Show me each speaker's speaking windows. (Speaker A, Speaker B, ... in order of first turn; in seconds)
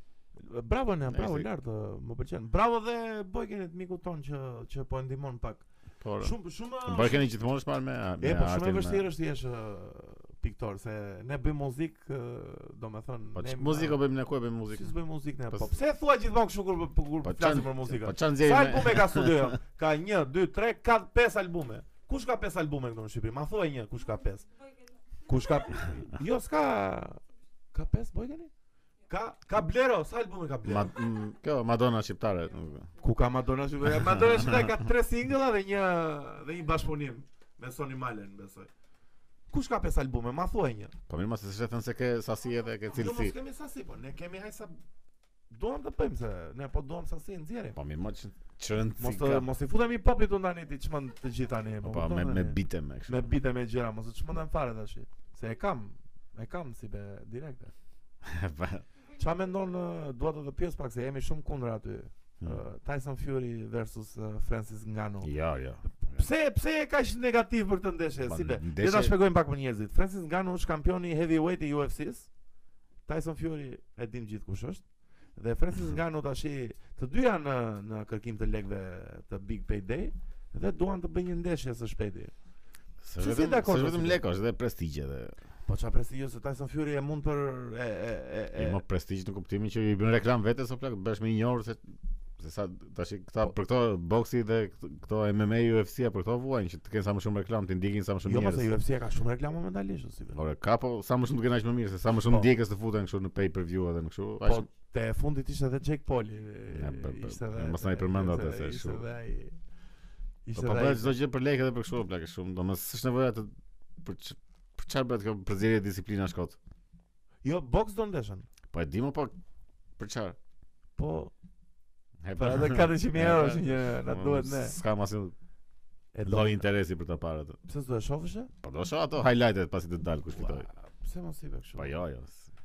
Speaker A: 0.4-7.3, 8.2-14.0, 14.7-24.5, 25.3-27.2, 27.7-28.5, 29.1-30.9, 33.0-38.7, 39.5-40.9, 42.9-44.8, 45.5-47.8, 49.0-57.7, 59.2-65.3, 66.0-72.3, 73.1-82.3, 83.2-84.2, 85.7-88.8, 98.2-100.4, 104.4-109.6, 110.5-111.2, 117.4-118.5, 121.0-121.3, 122.4-124.8, 126.1-126.7, 127.7-128.5, 130.3-132.0
Speaker B: 1.1-1.5, 6.0-9.1, 13.3-14.9, 17.2-19.6, 30.6-32.9, 34.4-34.7, 41.1-43.4, 47.8-49.5, 51.8-53.3, 58.2-58.9, 65.2-66.2, 68.3-69.2, 83.0-85.3, 88.6-91.8, 92.4-98.7, 100.3-104.7, 106.7-109.0, 110.5-116.6, 118.7-119.3, 120.0-120.4, 122.2-125.3, 126.2-127.6, 128.6-130.7, 131.8-132.4